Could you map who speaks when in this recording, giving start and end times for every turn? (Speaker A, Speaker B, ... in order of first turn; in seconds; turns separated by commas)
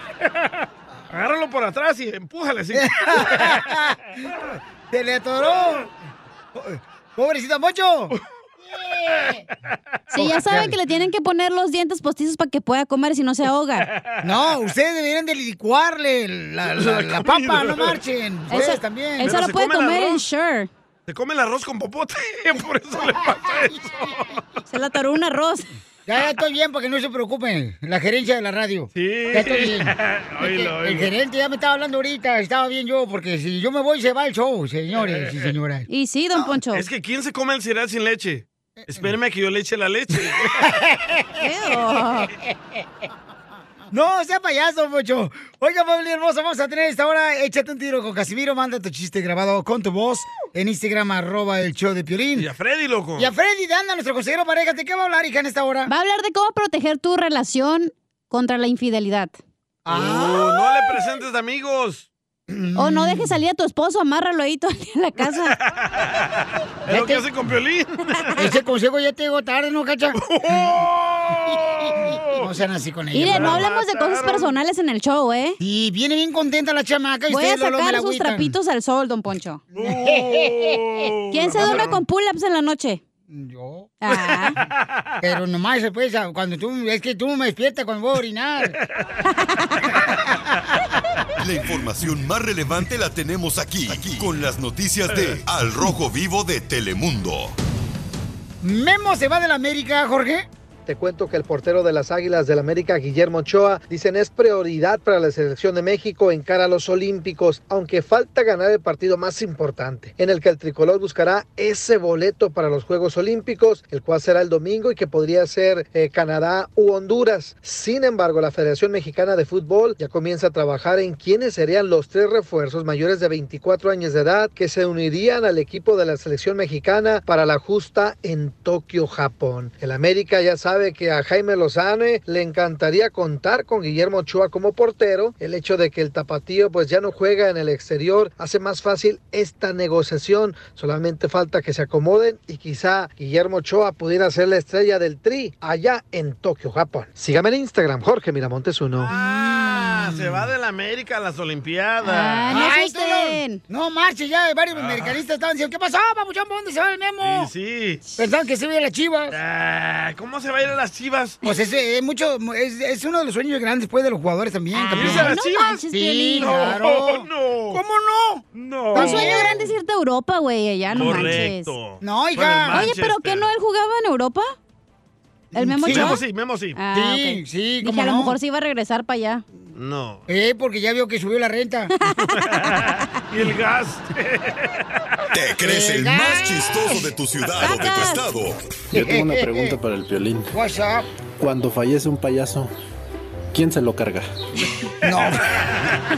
Speaker A: 1.1-3.8, Speaker B: 2.7-4.0, Speaker B: 4.9-5.9, Speaker B: 6.5-8.1, Speaker A: 9.1-9.4, Speaker C: 10.1-13.9, Speaker B: 10.1-10.8, Speaker A: 13.8-14.6, Speaker B: 14.2-19.3, Speaker A: 16.7-18.0, Speaker C: 18.5-20.7, Speaker A: 19.2-20.2, Speaker A: 21.1-24.4, Speaker C: 24.7-25.7, Speaker B: 26.1-35.9, Speaker A: 28.9-31.1, Speaker A: 34.9-35.5, Speaker C: 35.9-36.9, Speaker A: 36.7-40.7, Speaker B: 38.8-39.1, Speaker B: 40.6-42.0, Speaker C: 41.4-42.3, Speaker B: 43.9-52.5, Speaker A: 52.4-53.3, Speaker B: 53.2-55.9, Speaker C: 55.9-59.4, Speaker B: 59.9-60.6, Speaker A: 59.9-62.1, Speaker B: 62.5-63.4, Speaker C: 62.8-65.6, Speaker A: 65.5-68.3, Speaker B: 66.9-67.2, Speaker B: 68.4-70.7, Speaker A: 70.2-72.5, Speaker B: 71.5-73.7, Speaker C: 73.1-75.6, Speaker A: 73.3-74.5, Speaker B: 75.6-78.5, Speaker C: 77.3-79.6, Speaker B: 79.7-80.8, Speaker A: 79.8-81.9, Speaker C: 81.3-83.0, Speaker B: 81.5-82.0, Speaker B: 83.3-83.9, Speaker C: 84.0-84.6, Speaker B: 85.2-88.8, Speaker D: 91.4-97.5, Speaker B: 98.6-100.5, Speaker E: 100.9-149.1, Speaker A: 149.0-152.6, Speaker B: 149.1-150.4, Speaker C: 152.0-153.6, Speaker B: 152.5-157.5, Speaker A: 154.7-155.2, Speaker A: 157.2-158.0, Speaker B: 158.2-159.4, Speaker A: 159.3-161.4, Speaker B: 161.4-165.3, Speaker C: 164.7-166.7, Speaker A: 164.9-165.8, Speaker B: 165.9-169.6, Speaker A: 166.4-167.8, Speaker A: 168.5-169.7, Speaker C: 168.9-171.7, Speaker A: 170.9-173.5, Speaker B: 172.0-172.8, Speaker C: 172.7-174.5, Speaker B: 175.5-176.2, Speaker C: 175.5-176.2, Speaker A: 175.9-176.8, Speaker C: 176.8-179.4, Speaker B: 176.9-178.3, Speaker A: 179.7-180.2, Speaker B: 180.3-181.9, Speaker C: 182.0-182.4, Speaker A: 182.3-184.8, Speaker D: 185.3-188.6, Speaker B: 185.6-187.1, Speaker C: 187.6-188.3, Speaker F: 188.9-190.5, Speaker B: 188.9-189.8, Speaker B: 190.5-191.1, Speaker F: 191.4-192.7, Speaker F: 193.5-194.3, Speaker B: 195.0-195.6